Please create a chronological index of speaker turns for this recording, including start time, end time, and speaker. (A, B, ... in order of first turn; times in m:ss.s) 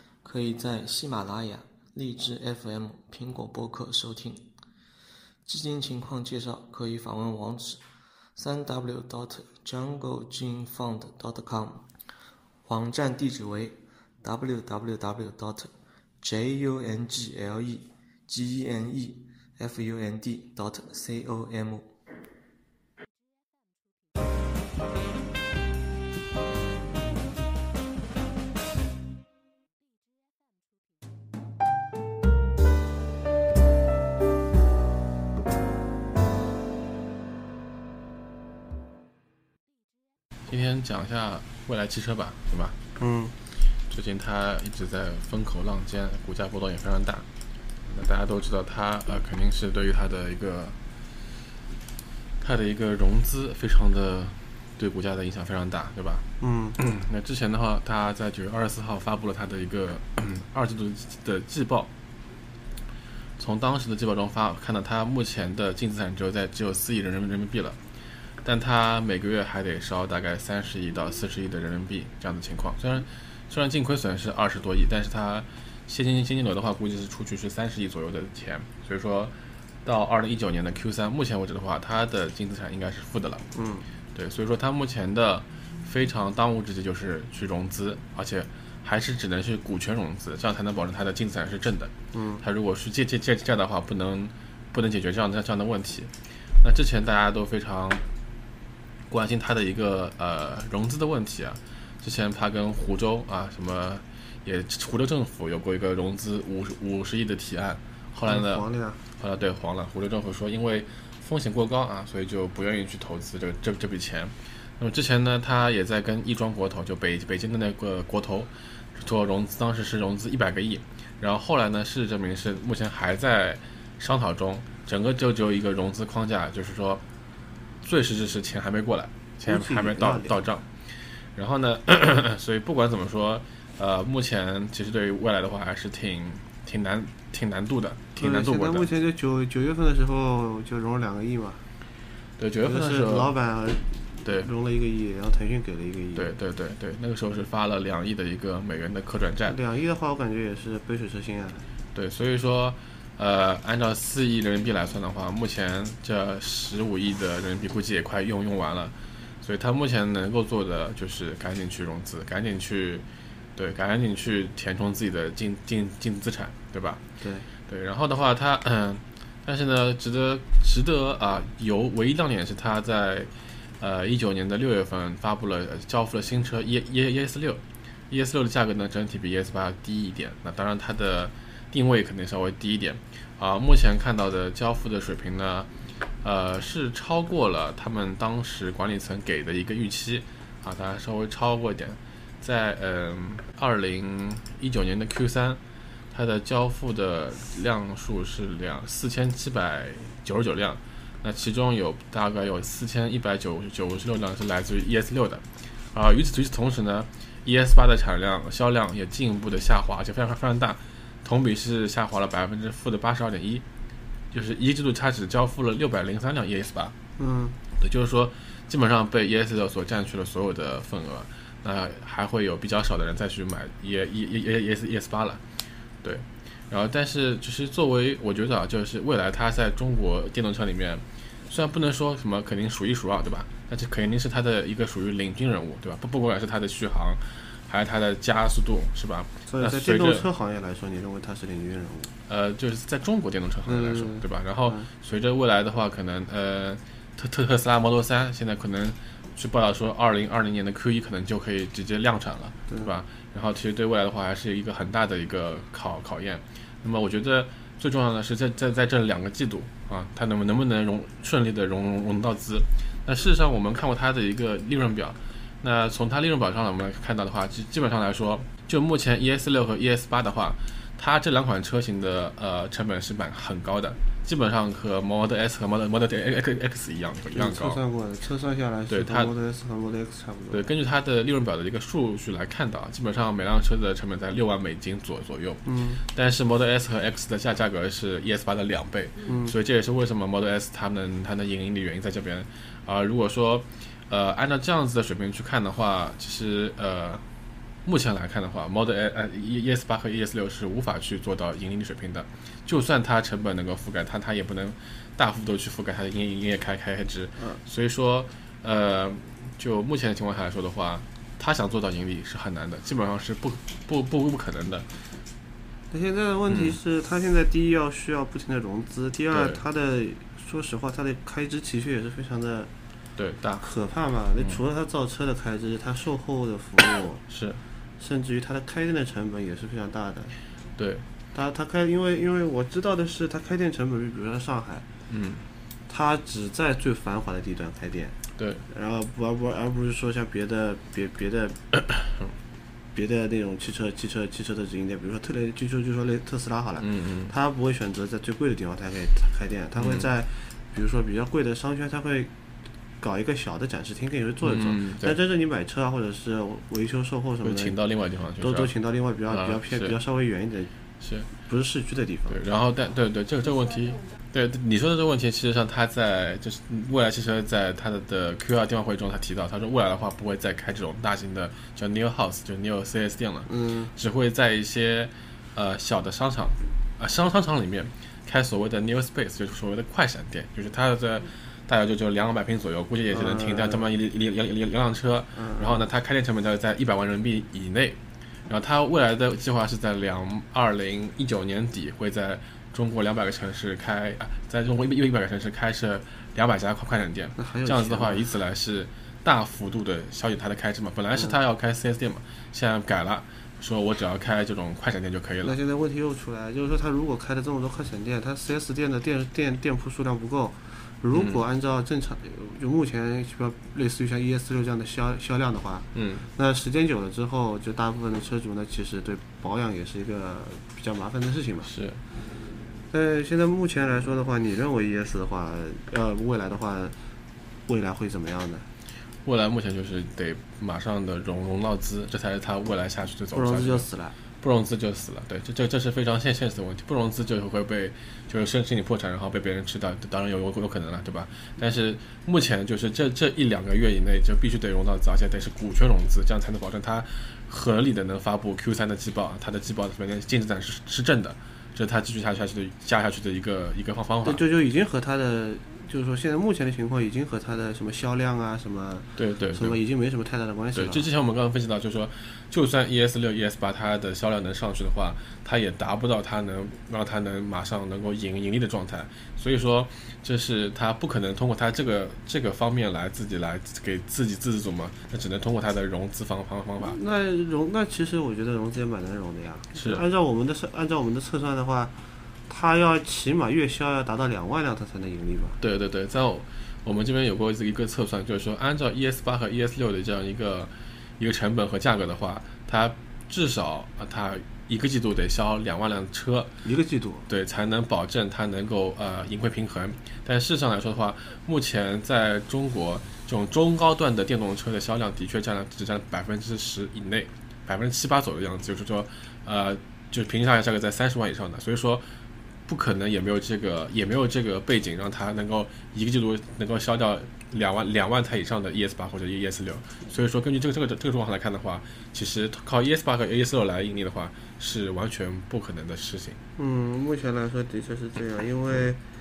0:00.2-0:04.4 A
0:05.5-0:07.8 A
0:08.4-0:11.9 A
0:12.6-0:21.9 A
0:40.5-0:42.8 B
0:43.0-0:43.4 C
0:43.9-0:47.3 B
0:47.9-0:50.8 B
0:52.4-0:56.3 B
0:56.4-0:56.8 C
0:56.8-1:01.9 B
1:03.4-1:07.8 B
1:08.4-1:23.4 B
1:23.6-1:23.9 C
1:24.1-1:38.0 B
1:32.1-1:32.4 C
1:39.1-2:07.0 B
1:48.2-1:49.0 C
2:07.8-2:10.7 B
2:09.5-2:10.4 C
2:11.4-2:18.9 B
2:18.2-2:21.6 C
2:22.4-2:23.4 B
2:22.6-2:26.3 C
2:24.2-2:24.5 B
2:26.2-2:29.6 B
2:29.5-2:31.7 C
2:32.0-2:43.0 B
2:43.6-2:47.0 B
2:47.2-2:47.5 C
2:47.7-3:05.7 B
3:06.2-3:15.6 B
3:16.1-3:33.6 B
3:34.3-3:37.0 B
3:37.2-3:37.6 C
3:37.8-3:45.4 B
3:46.0-4:00.3 B
3:59.5-4:02.1 C
4:02.3-4:37.8 B
4:03.7-4:04.9 C
4:37.3-4:40.7 C
4:38.9-4:39.3 B
4:40.5-4:57.2 B
4:45.6-4:46.0 C
4:49.3-4:49.6 C
4:57.8-5:14.9 B
5:15.9-5:22.7 C
5:16.5-5:16.8 B
5:19.3-5:19.6 B
5:23.2-5:23.7 B
5:23.6-5:27.2 C
5:27.3-5:27.6 B
5:28.0-5:30.4 C
5:30.8-5:31.1 B
5:31.3-5:34.8 C
5:35.1-5:35.5 B
5:35.9-5:38.2 C
5:38.4-5:38.6 B
5:38.7-5:41.6 C
5:42.9-5:52.3 C
5:46.8-5:47.3 B
5:49.8-5:50.1 B
5:53.0-5:57.8 C
5:54.4-5:55.2 B
5:57.4-5:58.7 B
5:58.4-6:00.7 C
5:59.3-6:00.0 B
6:01.0-6:01.3 B
6:01.5-6:02.4 C
6:02.3-6:45.6 B
6:13.5-6:13.9 C
6:23.1-6:23.9 C
6:25.4-6:25.8 C
6:37.4-6:38.3 C
6:45.4-7:01.7 C
6:51.1-6:51.4 B
6:56.0-6:56.3 B
7:01.6-7:02.0 B
7:02.9-7:07.0 C
7:07.7-7:08.7 C
7:09.2-7:13.9 B
7:13.3-7:14.2 C
7:14.4-7:34.4 B
7:34.2-7:41.1 C
7:39.2-7:39.8 B
7:40.8-7:57.0 B
7:56.8-8:01.9 C
7:59.7-8:00.0 B
8:02.5-8:05.6 C
8:05.6-8:16.5 B
8:16.6-8:17.3 C
8:17.3-8:32.0 B
8:32.7-8:46.4 B
8:46.6-8:49.0 C